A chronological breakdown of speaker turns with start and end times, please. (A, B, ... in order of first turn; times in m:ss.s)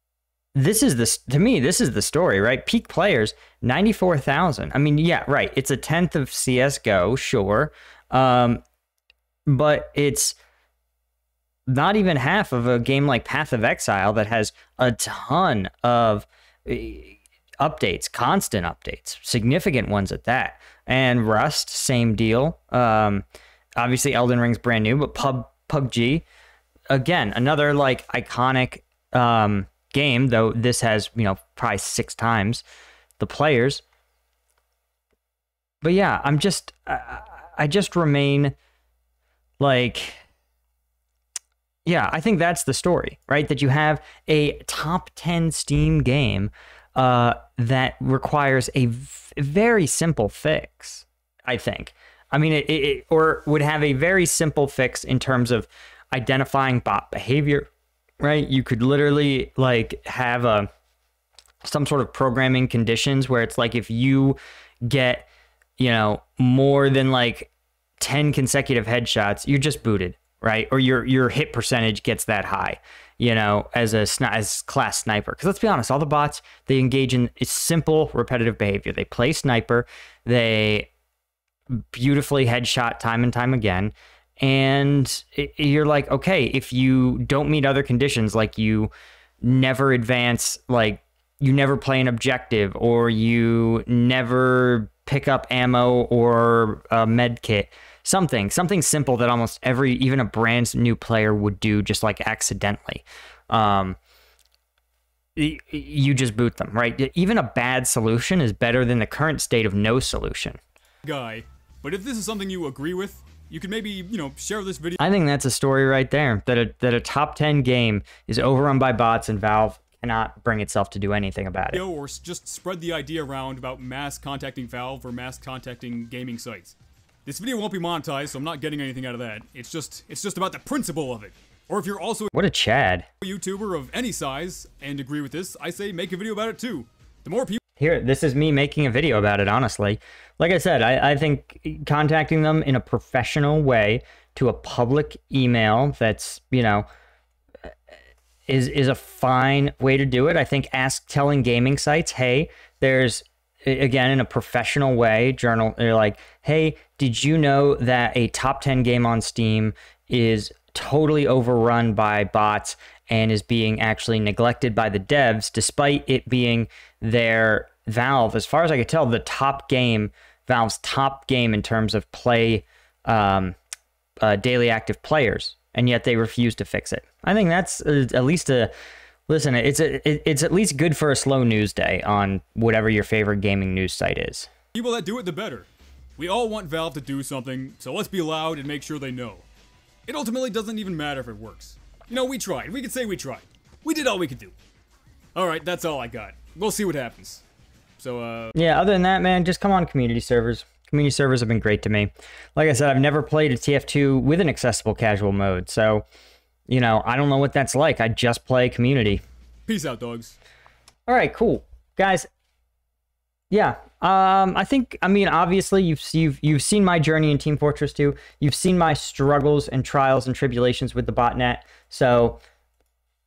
0:00.6-0:08.6 A
0:09.5-0:10.4 A
0:11.7-0:23.2 A
0:23.8-0:26.2 A
0:26.9-0:32.6 A
0:33.2-0:33.8 A
0:35.8-0:38.6 A
0:39.6-0:40.2 A
0:41.9-0:57.7 A
0:58.2-1:00.7 A
1:01.6-1:05.3 A
1:05.8-1:20.9 A
1:21.7-1:28.9 A
1:29.4-1:44.0 A
1:45.4-1:50.6 A
1:51.0-1:55.0 B
1:55.0-2:01.8 A
2:01.7-2:12.3 B
2:12.3-2:13.1 A
2:13.2-2:17.6 B
2:17.8-2:26.9 A
2:28.5-2:53.6 A
2:54.2-2:58.7 A
2:59.3-3:04.5 A
3:04.7-3:09.5 B
3:10.1-3:14.6 B
3:15.4-3:17.4 B
3:18.0-3:18.6 B
3:18.6-3:26.1 A
3:26.7-3:29.2 A
3:29.7-3:30.4 B
3:31.1-3:32.3 A
3:33.5-3:42.4 A